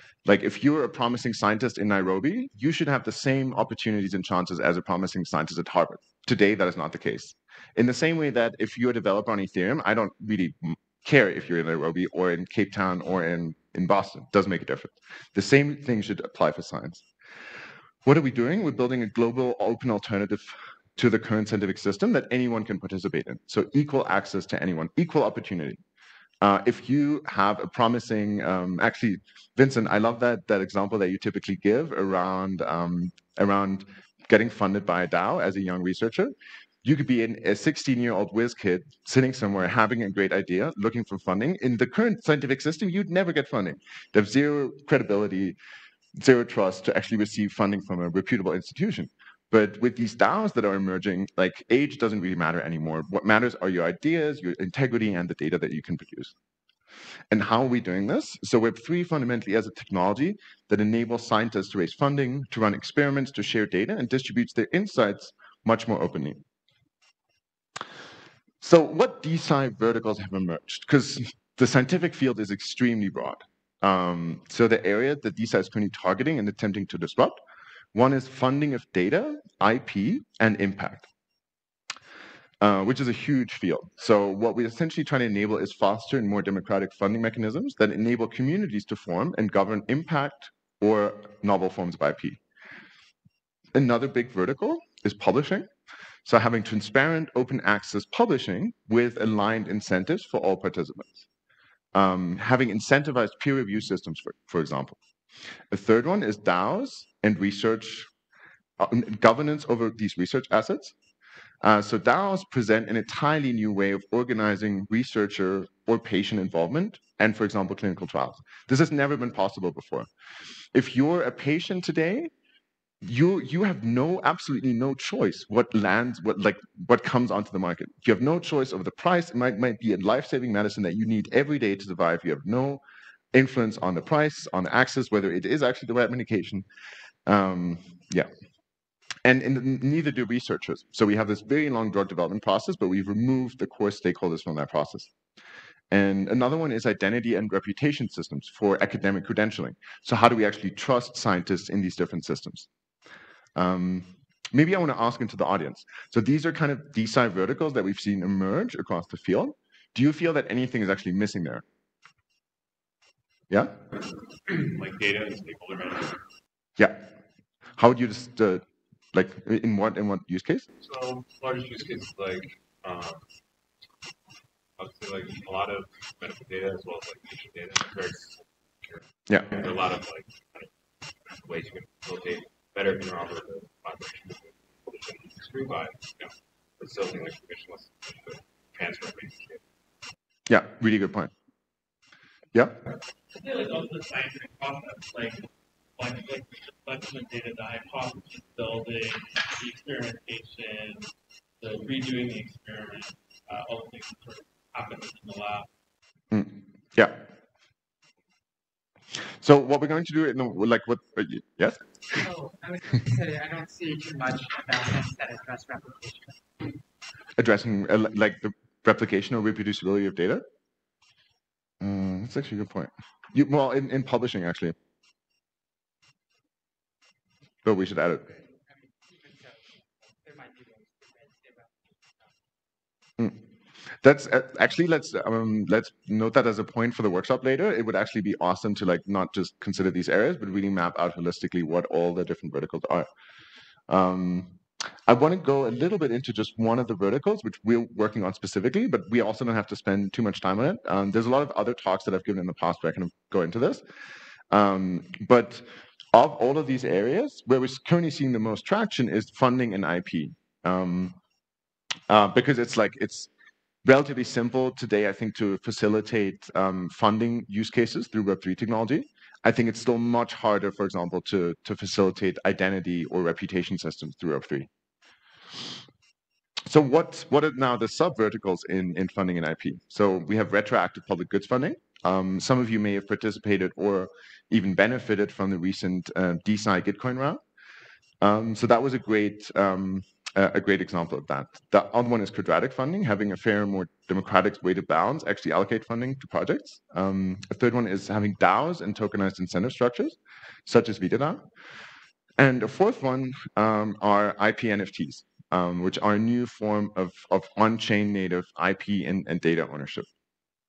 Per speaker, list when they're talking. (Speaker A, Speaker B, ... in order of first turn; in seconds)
Speaker A: 0.2-17.0, 18.0-25.8, 26.4-45.6, 46.1-56.3, 57.3-66.4, 68.6-77.4, 77.9-81.1, 82.6-92.4, 93.7-95.7, 96.2-101.2, 101.9-105.0, 105.7-108.1, 108.8-110.9, 111.6-120.1, 120.7-122.3, 123.0-132.8, 133.3-136.7, 137.2-138.3, 139.2-145.1, 145.9-152.7, 153.6-161.6, 163.5-163.8, 166.8-167.1, 167.8-170.7, 179.3-179.5, 190.5-191.3, 192.5-192.8, 206.3-207.2, 209.4-211.8, 217.4-220.4, 221.8-224.7, 227.6-228.3, 234.0-243.1, 243.9-253.8, 254.5-261.1, 262.1-263.3, 263.8-274.7, 276.6-287.4, 288.2-301.4, 302.4-310.1
Speaker B: 164.4-166.2, 170.8-173.3, 174.8-180.7, 181.2-189.6
Speaker C: 193.3-201.1, 201.6-205.7
Speaker D: 212.1-216.4, 228.4-232.3